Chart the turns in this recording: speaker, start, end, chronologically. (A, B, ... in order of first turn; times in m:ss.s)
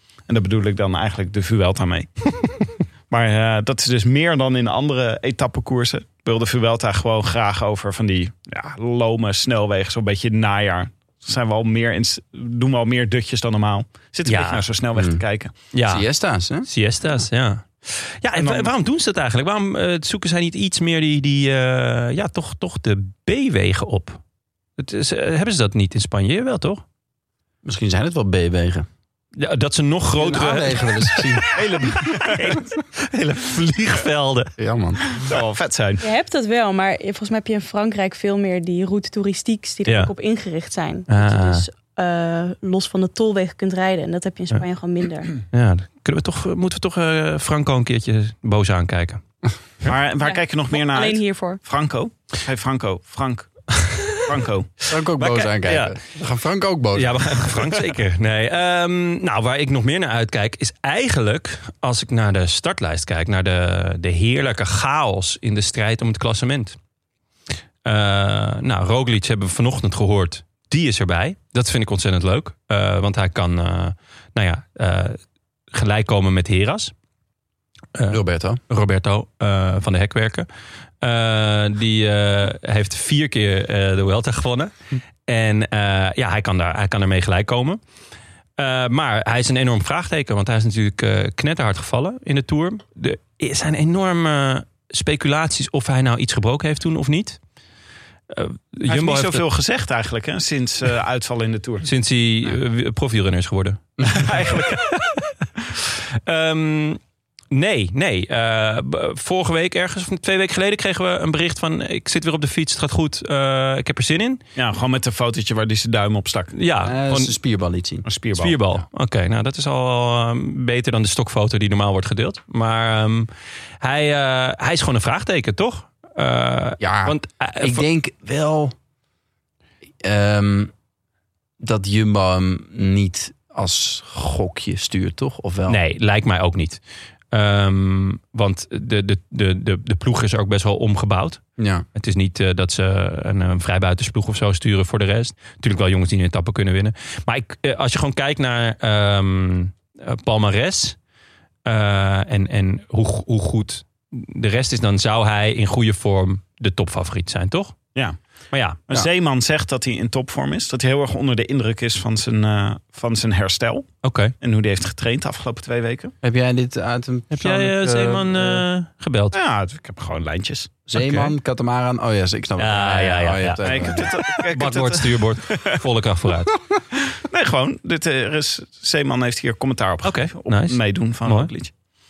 0:00.3-0:02.5 A
0:03.1-0:15.5 A
0:14.3-0:14.6 B
0:15.7-0:16.0 B
0:15.9-0:16.7 C
0:16.6-0:24.2 B
0:18.4-0:18.7 A
0:24.8-0:26.8 B
0:27.6-0:28.9 C
0:29.4-0:31.5 B
0:30.2-0:31.6 C
0:31.5-0:32.6 A
0:32.0-0:34.5 B
0:34.6-0:35.0 C
0:35.1-0:36.0 A
0:36.0-0:45.4 D
0:39.9-0:40.1 B
0:41.1-0:41.6 B
0:45.5-0:49.2 B
0:49.8-0:54.7 A
0:50.2-0:51.6 D
0:54.9-0:57.5 C
0:55.2-0:56.0 B
0:56.9-1:06.8 B
1:07.8-1:15.2 B
1:15.7-1:16.9 B
1:18.0-1:20.5 B
1:18.1-1:18.6 C
1:21.0-1:24.7 B
1:25.3-1:27.8 B
1:28.6-1:37.4 B
1:38.3-1:39.4 B
1:38.9-1:41.9 A
1:41.8-1:47.0 B
1:44.1-1:44.8 A
1:47.5-1:54.4 B
1:54.6-1:56.5 A
1:56.5-1:57.3 B
1:56.8-1:58.1 C
1:58.0-1:58.6 A
1:58.4-2:03.3 B
2:03.8-2:07.8 B
2:06.8-2:08.8 C
2:10.0-2:10.7 C
2:11.6-2:15.8 C
2:15.7-2:16.8 B
2:17.3-2:21.4 B
2:21.6-2:21.9 C
2:22.0-2:31.0 B
2:31.7-2:37.8 B
2:38.5-2:38.8 B
2:38.9-2:46.1 A
2:44.0-2:44.3 B
2:46.2-2:48.6 C
2:47.3-2:49.4 B
2:49.3-2:50.7 A
2:50.9-2:54.1 C
2:51.0-2:51.3 B
2:52.6-2:56.5 B
2:53.6-2:55.8 A
2:56.9-3:01.7 A
3:00.0-3:01.5 B